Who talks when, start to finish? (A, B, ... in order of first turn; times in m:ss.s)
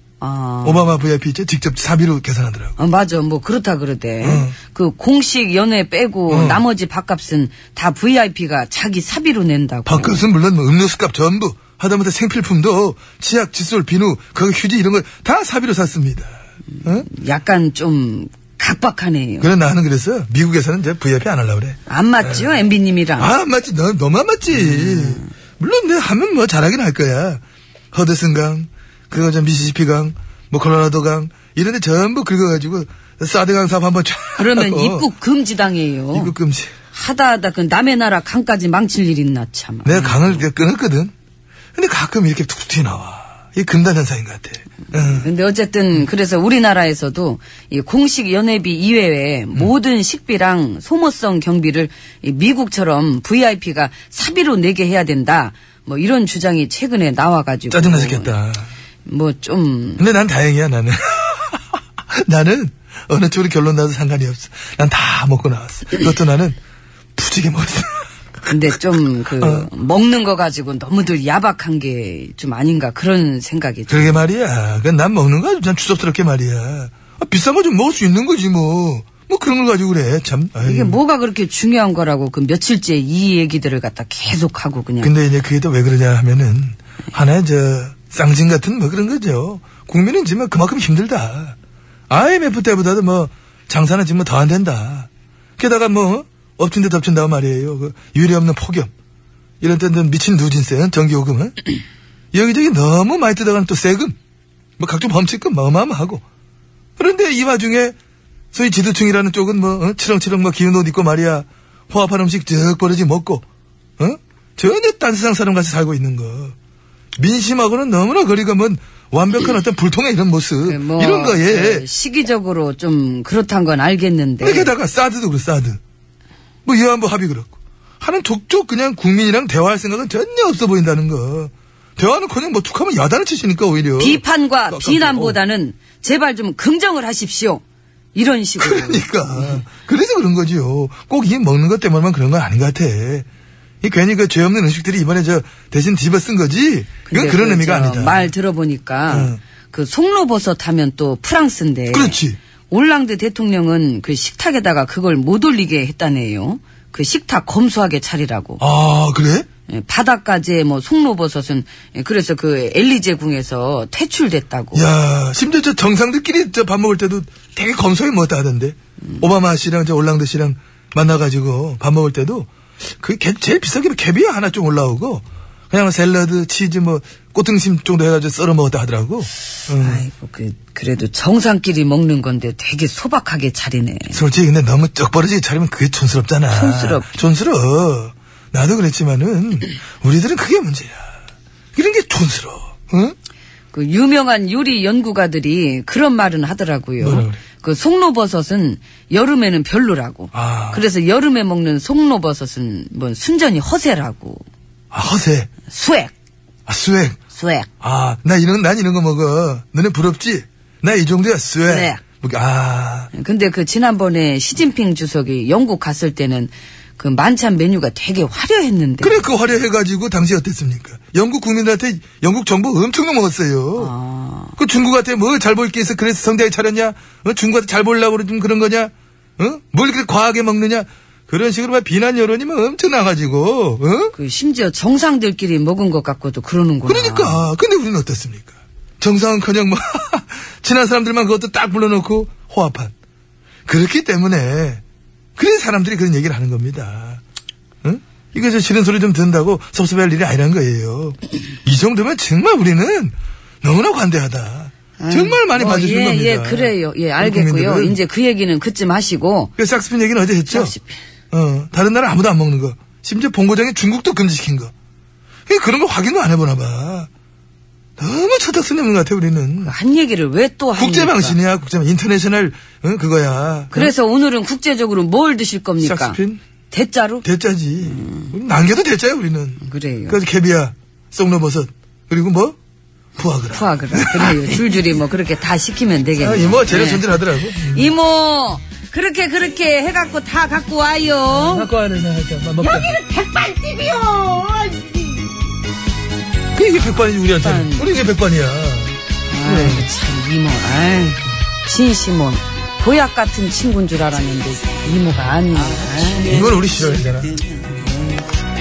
0:00.2-0:01.0 A
0:00.6-0:02.8 B
0:02.8-0:10.3 A
0:04.2-0:04.6 B
0:06.3-0:06.6 B
0:09.9-0:17.1 B
0:16.8-0:19.5 A
0:19.4-0:22.6 B
0:21.9-0:23.3 A
0:23.2-0:35.1 B
0:24.5-0:25.3 A
0:34.4-0:36.4 A
0:36.1-0:36.7 B
0:36.9-0:40.5 A
0:39.8-0:41.1 B
0:41.8-0:45.3 B
0:44.9-0:58.4 A
0:57.7-0:58.7 B
0:59.1-1:00.1 A
1:00.0-1:06.6 B
1:07.2-1:08.0 B
1:08.4-1:14.2 A
1:09.4-1:09.7 B
1:13.9-1:21.0 B
1:20.6-1:25.1 A
1:25.0-1:31.6 B
1:32.1-1:38.9 B
1:39.6-1:41.7 B
1:42.3-1:44.2 B
1:44.8-1:46.2 B
1:47.0-1:48.0 B
1:48.5-1:53.4 B
1:54.0-1:56.6 B
1:57.2-2:01.9 B
2:00.6-2:04.7 A
2:04.4-2:05.8 B
2:06.6-2:15.4 B
2:14.0-2:17.6 A
2:18.2-2:19.6 A
2:18.6-2:23.3 B
2:23.8-2:28.3 B
2:27.1-2:38.6 A
2:29.1-2:29.4 B
2:31.9-2:32.4 B
2:38.6-2:39.5 B
2:39.7-2:44.9 A
2:44.8-2:52.5 B
2:53.0-3:00.0 B
2:59.7-3:04.2 A
3:04.1-3:11.1 B
3:06.5-3:07.1 A
3:11.8-3:13.2 B
3:13.7-3:24.4 A
3:17.0-3:17.4 B
3:20.3-3:20.8 B
3:24.9-3:25.5 B
3:25.7-3:26.1 A
3:26.7-3:27.2 B
3:27.3-3:27.7 A
3:27.8-3:33.1 B
3:31.7-3:32.0 A
3:33.1-3:39.2 A
3:39.0-3:43.9 B
3:43.8-3:44.6 A
3:44.6-3:54.2 B
3:54.2-3:57.5 A
3:56.9-4:02.9 B
4:03.7-4:04.8 B
4:05.4-4:07.2 B
4:07.8-4:18.0 B
4:15.0-4:19.5 A
4:19.6-4:20.8 B
4:20.5-4:21.0 A
4:21.3-4:24.7 B
4:25.5-4:27.1 B
4:28.0-4:29.7 B
4:29.6-4:31.4 A
4:30.8-4:34.0 B
4:33.7-4:36.2 A
4:35.8-4:36.4 B
4:36.7-4:37.2 A
4:37.2-4:42.6 B
4:37.9-4:38.3 A
4:39.6-4:40.2 A
4:43.2-4:44.6 B
4:43.5-4:51.7 A
4:46.2-4:47.9 B
4:51.3-4:53.0 B
4:52.6-4:55.3 A
4:56.6-4:59.9 B
4:57.4-4:57.9 A
4:59.3-5:08.3 A
5:06.2-5:07.4 B